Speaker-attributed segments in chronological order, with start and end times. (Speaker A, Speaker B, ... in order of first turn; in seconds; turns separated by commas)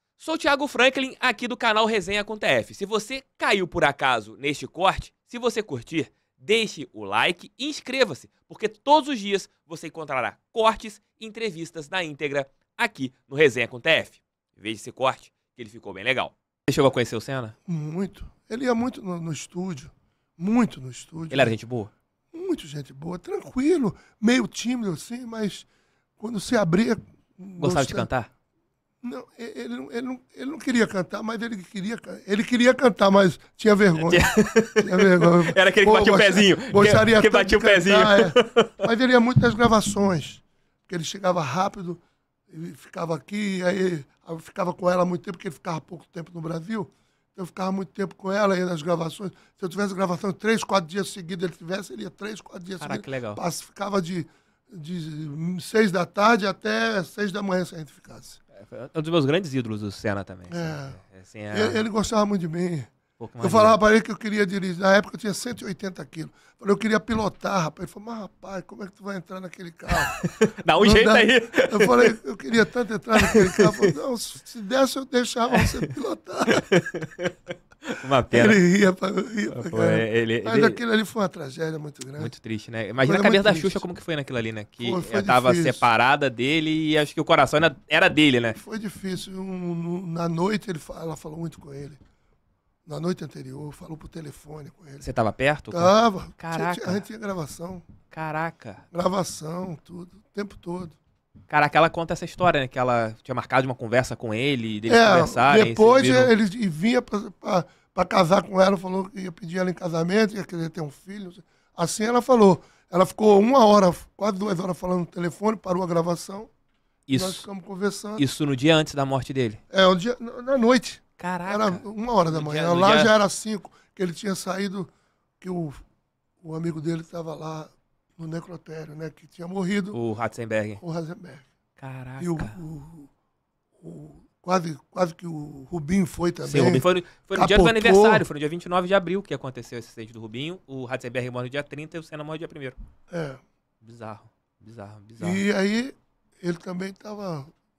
Speaker A: 0.2-17.6, Speaker B: 17.7-21.6, Speaker A: 21.3-21.9, Speaker B: 22.3-25.7, Speaker B: 26.2-28.1, Speaker A: 27.6-28.3, Speaker B: 29.0-58.4, Speaker A: 34.0-38.8, Speaker A: 52.8-53.4, Speaker A: 58.5-61.9, Speaker B: 60.5-70.2, Speaker A: 63.2-63.8, Speaker A: 70.1-72.1, Speaker B: 70.8-76.7, Speaker A: 73.2-73.9, Speaker A: 75.5-75.8, Speaker A: 76.6-77.3, Speaker A: 77.9-78.6, Speaker B: 78.3-82.3, Speaker A: 79.5-80.8, Speaker A: 82.2-88.6, Speaker B: 83.0-83.8, Speaker B: 84.8-85.8, Speaker B: 88.5-92.0, Speaker B: 92.9-95.1, Speaker A: 95.0-97.0, Speaker B: 95.7-97.8, Speaker A: 98.1-98.8, Speaker B: 98.9-101.0, Speaker A: 101.5-106.3, Speaker B: 104.9-116.5, Speaker A: 117.1-117.5, Speaker B: 117.1-118.2, Speaker A: 118.2-119.6, Speaker B: 119.7-125.8, Speaker A: 121.2-123.1, Speaker B: 126.4-130.0, Speaker A: 129.9-130.8, Speaker B: 130.8-131.5, Speaker A: 131.8-132.6, Speaker B: 132.2-133.1, Speaker B: 133.8-138.2, Speaker A: 136.4-142.8, Speaker B: 143.1-143.4, Speaker A: 143.8-145.4, Speaker B: 145.2-147.5